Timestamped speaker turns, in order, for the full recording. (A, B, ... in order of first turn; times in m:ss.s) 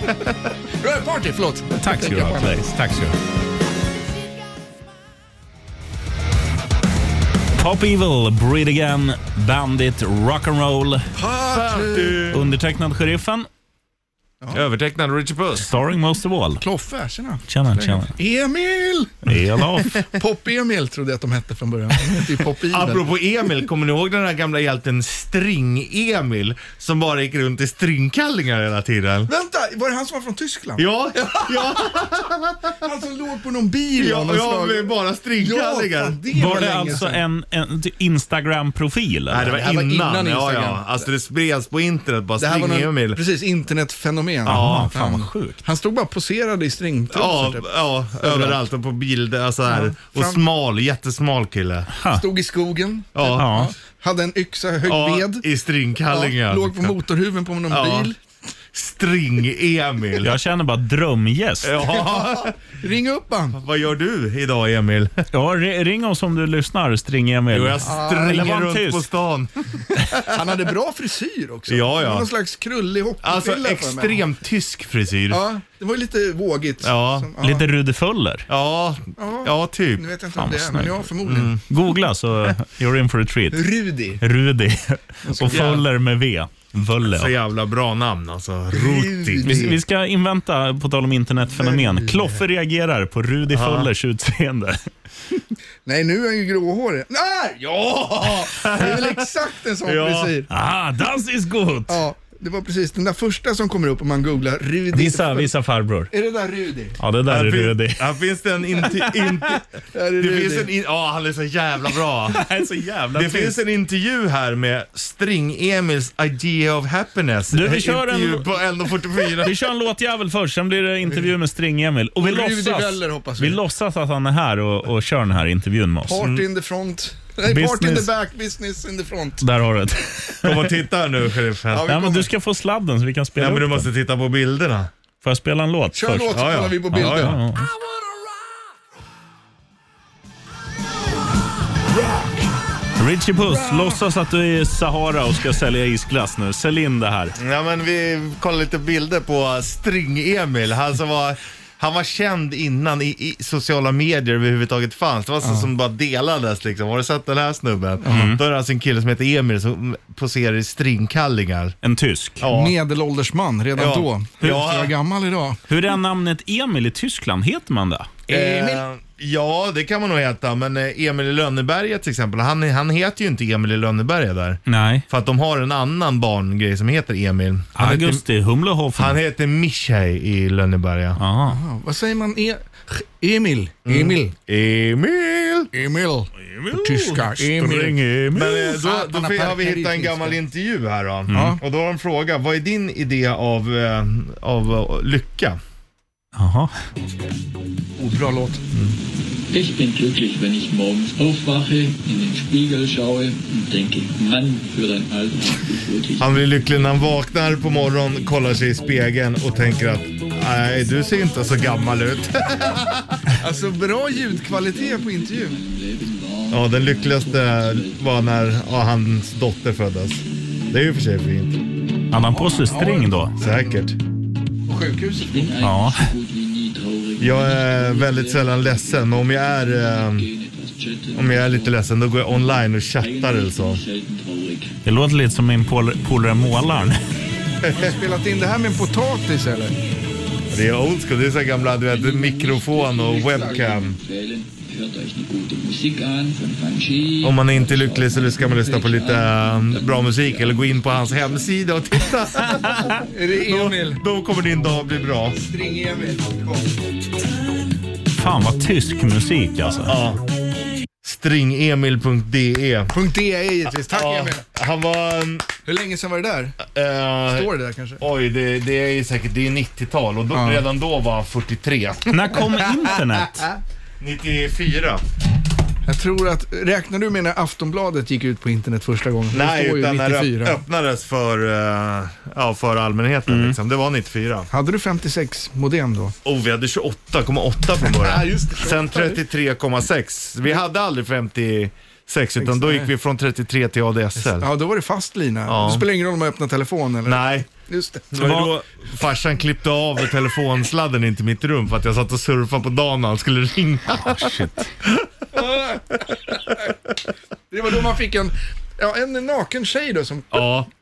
0:00.8-0:02.7 A
0:01.8-0:03.1 B
0:07.6-0:11.1 B
0:11.1-0:12.3 A
0:11.5-0:12.4 C
0:12.3-0:13.5 B
0:14.5-0:15.7 C
0:15.6-0:16.6 B
0:16.6-0:19.4 A
0:17.5-0:18.1 B
0:19.3-0:20.0 B
0:19.9-0:23.1 A
0:22.7-0:29.3 C
0:29.3-0:31.9 A
0:30.8-0:32.9 C
0:32.8-0:37.2 A
0:34.0-0:36.2 C
0:36.3-0:39.6 B
0:39.3-0:43.2 C
0:39.5-0:41.1 A
0:42.4-0:48.6 A
0:44.5-0:44.9 C
0:44.5-0:45.6 B
0:47.1-0:51.9 C
0:49.7-0:50.4 A
0:52.0-0:52.2 B
0:52.1-0:55.4 A
0:53.1-0:53.5 C
0:53.4-0:53.7 B
0:54.8-0:57.0 C
0:56.1-0:58.2 A
0:57.7-0:58.1 C
0:58.7-1:00.3 C
1:00.2-1:01.8 B
1:01.6-1:02.6 C
1:01.9-1:03.6 A
1:03.5-1:05.2 C
1:05.3-1:09.1 B
1:07.5-1:10.4 C
1:07.8-1:08.6 A
1:10.3-1:14.2 A
1:11.7-1:12.3 C
1:13.2-1:15.4 C
1:15.3-1:17.6 A
1:16.8-1:17.3 C
1:17.4-1:18.5 B
1:18.5-1:20.1 C
1:19.2-1:21.6 A
1:20.4-1:21.1 B
1:21.3-1:21.6 C
1:21.7-1:27.3 B
1:23.5-1:24.2 A
1:25.2-1:25.8 A
1:25.5-1:25.8 C
1:27.0-1:29.8 C
1:28.7-1:29.8 A
1:29.4-1:34.9 B
1:31.6-1:32.4 A
1:33.5-1:33.9 C
1:35.9-1:40.5 A
1:38.4-1:39.3 C
1:39.8-1:40.4 C
1:40.5-1:42.0 B
1:41.9-1:45.5 A
1:44.9-1:46.1 B
1:46.1-1:47.0 A
1:47.0-1:48.1 B
1:47.2-1:52.4 C
1:48.9-1:49.6 B
1:49.9-1:50.7 A
1:52.3-1:53.6 B
1:53.1-1:59.6 C
1:57.5-1:58.6 B
1:59.4-2:06.2 B
2:02.2-2:03.6 A
2:06.0-2:09.4 A
2:06.2-2:06.4 C
2:07.4-2:08.1 B
2:09.4-2:10.7 B
2:10.4-2:11.9 C
2:11.7-2:12.3 A
2:11.9-2:13.9 B
2:13.4-2:14.9 C
2:15.2-2:16.4 B
2:15.9-2:17.4 A
2:16.3-2:17.4 C
2:16.9-2:17.7 B
2:22.0-2:22.4 A
2:23.0-2:27.4 B
2:23.5-2:24.0 A
2:27.4-2:41.7 C
2:38.0-2:38.3 A
2:38.1-2:38.4 B
2:41.8-2:42.4 B
2:42.4-2:42.8 C
2:42.5-2:45.6 A
2:43.7-2:44.9 C
2:45.7-2:48.1 B
2:48.3-2:48.8 A
2:48.3-2:58.2 C
2:54.7-2:55.0 B
2:57.7-2:59.2 B
2:58.9-3:01.2 C
3:01.2-3:01.6 B
3:01.4-3:04.3 A
3:03.8-3:05.7 C
3:05.7-3:08.0 A
3:06.4-3:08.7 B
3:08.3-3:15.6 C
3:08.6-3:10.4 A
3:11.3-3:11.6 B
3:11.3-3:11.6 A
3:16.4-3:16.7 B
3:18.0-3:18.6 A
3:19.5-3:25.4 D
3:26.2-3:33.2 C
3:33.4-3:35.6 A
3:35.6-3:36.6 D
3:36.5-3:41.6 C
3:42.1-3:43.3 B
3:42.3-3:43.5 A
3:43.4-3:44.0 C
3:44.7-3:45.6 A
3:45.5-3:47.4 D
3:45.6-3:46.1 B
3:47.2-3:50.3 C
3:50.4-3:51.2 D
3:51.1-3:53.8 C
3:53.6-3:54.7 D
3:54.8-3:57.0 B
3:57.7-3:59.7 A
4:00.5-4:04.0 C
4:02.1-4:07.4 D
4:07.2-4:15.4 C
4:12.5-4:12.9 B
4:13.1-4:14.0 A
4:15.4-4:16.8 A
4:18.2-4:20.0 B
4:19.8-4:20.2 C
4:21.0-4:22.9 C
4:22.9-4:24.4 A
4:23.8-4:25.5 C
4:25.7-4:26.6 A
4:26.6-4:32.9 C
4:27.3-4:28.0 A
4:30.3-4:30.6 A
4:32.1-4:33.5 B
4:34.0-4:35.0 C
4:35.9-4:40.6 A
4:39.3-4:44.5 C
4:43.3-4:43.6 B
4:44.5-4:46.1 A
4:46.2-4:54.5 C
4:47.8-4:49.2 A
4:52.4-4:52.9 A
4:54.2-4:58.1 A
4:55.5-4:55.9 C
4:57.0-4:57.5 C
4:58.1-5:05.1 C
4:58.2-4:58.5 B
5:04.1-5:04.7 B
5:05.3-5:06.7 A
5:07.5-5:10.5 A
5:10.3-5:10.7 C